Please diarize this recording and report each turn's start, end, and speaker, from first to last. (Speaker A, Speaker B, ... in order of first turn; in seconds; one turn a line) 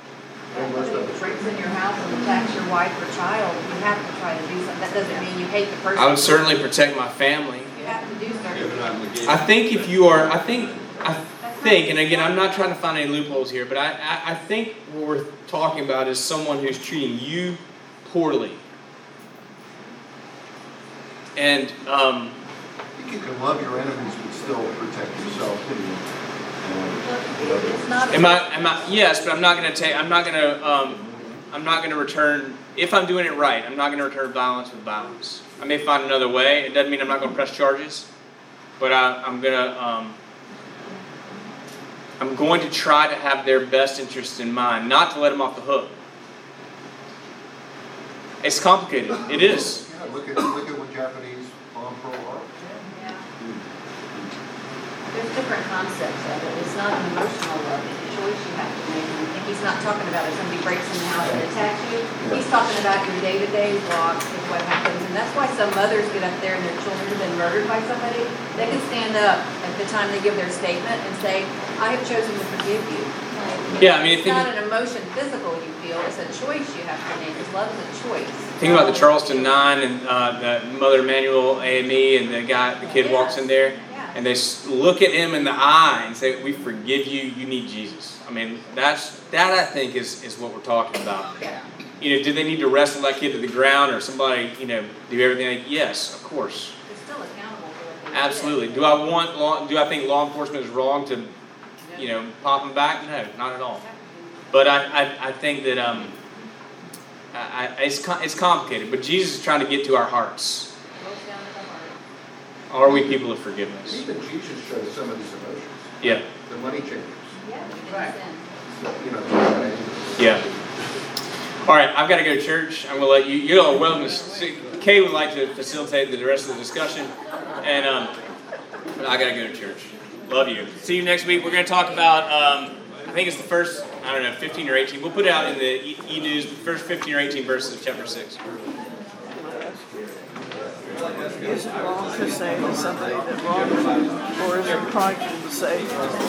Speaker A: 0.5-1.4
Speaker B: 0.5-6.5
Speaker C: 6.0-7.7
Speaker B: 7.7-8.8
Speaker D: 8.5-10.7
Speaker C: 9.3-18.6
Speaker B: 11.4-12.7
Speaker C: 21.4-22.4
Speaker A: 22.9-26.1
Speaker A: 26.6-27.9
Speaker B: 27.0-28.5
Speaker C: 28.1-38.1
Speaker C: 38.8-40.2
Speaker C: 42.2-45.9
Speaker C: 48.4-49.8
Speaker A: 49.3-52.5
Speaker B: 52.7-53.2
Speaker B: 55.1-79.6
Speaker A: 61.2-61.5
Speaker A: 62.2-62.4
Speaker C: 73.8-74.5
Speaker C: 78.6-91.4
Speaker B: 82.9-84.2
Speaker B: 91.4-91.7
Speaker C: 92.0-96.7
Speaker B: 96.9-98.9
Speaker C: 98.1-101.3
Speaker B: 101.8-102.1
Speaker C: 102.0-103.8
Speaker B: 103.8-104.8
Speaker C: 104.5-106.1
Speaker C: 107.3-110.7
Speaker B: 111.0-112.0
Speaker C: 112.7-114.0
Speaker A: 113.8-117.3
Speaker B: 117.4-118.4
Speaker A: 118.7-120.5
Speaker C: 120.2-120.4
Speaker C: 121.6-128.1
Speaker C: 128.9-138.4
Speaker E: 139.3-140.1
Speaker E: 141.4-146.1